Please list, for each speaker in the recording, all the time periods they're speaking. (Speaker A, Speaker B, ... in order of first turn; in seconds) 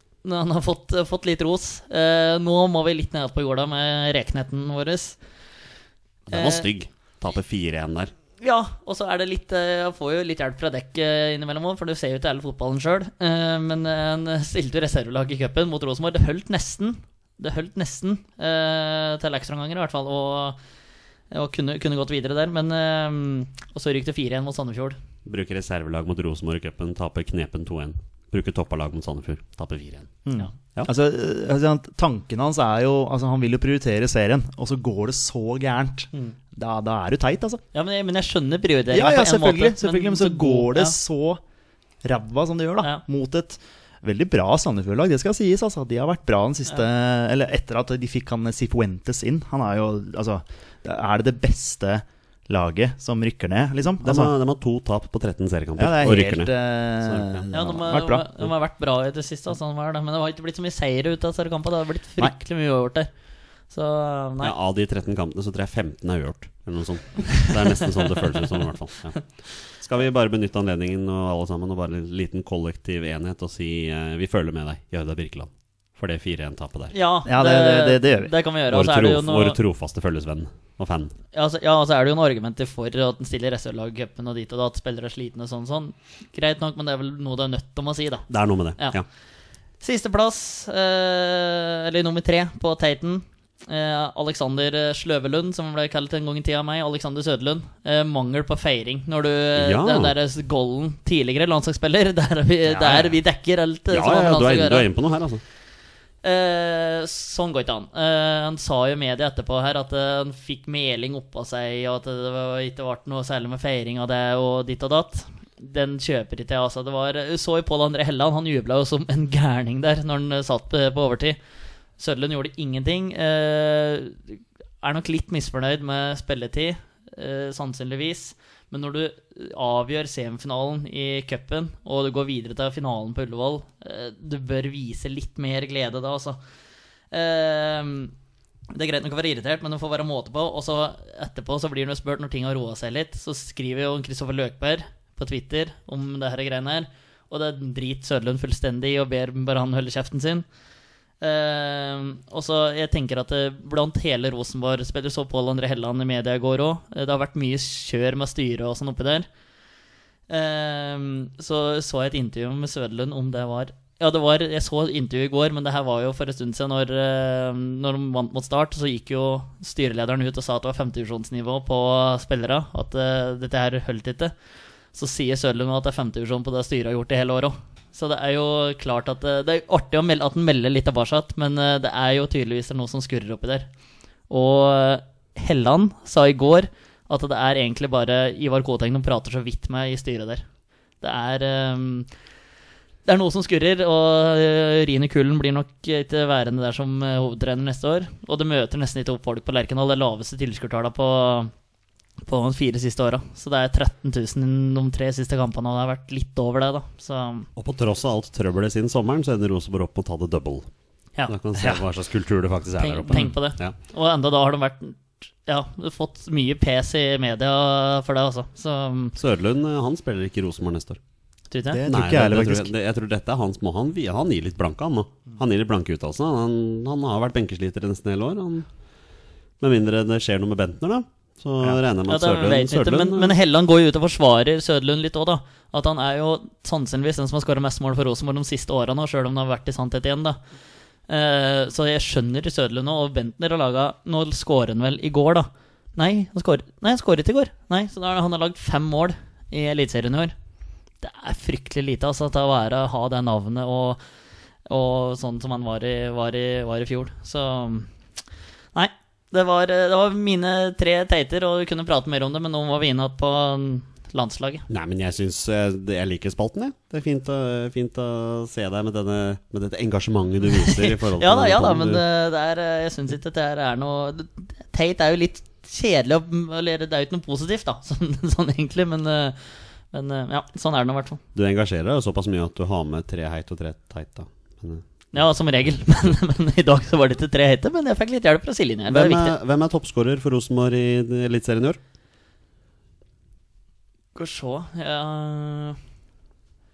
Speaker A: 0.2-5.2, 6.3-6.7, 8.4-20.6, 21.3-25.0, 37.7-41.0, 57.5-63.1, 63.7-64.5, 76.9-79.6, 81.3-88.3, 89.8-104.9, 106.2-121.4, 122.0-136.4, 137.1-138.1, 138.7-150.4, 151.2-159.3, 160.3-174.3, 174.9-183.7, 184.3-190.4, 191.0-192.1, 193.1-201.5, 202.3-207.5, 212.8-219.2, 221.5-221.8, 232.1-240.4, 241.1-250.3, 251.0-254.0, 254.7-257.9, 258.8-264.7, 270.5-281.2, 285.1-289.4, 294.1-295.8
Speaker B: 6.3-8.1, 25.2-30.1, 54.0-57.5, 64.4-76.9, 78.7-81.2, 88.3-89.1, 99.6-100.1, 103.9-105.4, 207.6-210.7, 211.3-213.8, 219.2-221.0, 221.9-228.7, 229.6-233.4, 264.7-272.0, 281.4-284.8, 288.9-291.8
Speaker C: 30.3-37.6, 38.9-41.4, 42.0-54.3, 55.8-58.3, 77.2-78.3, 102.8-103.1, 221.7-222.7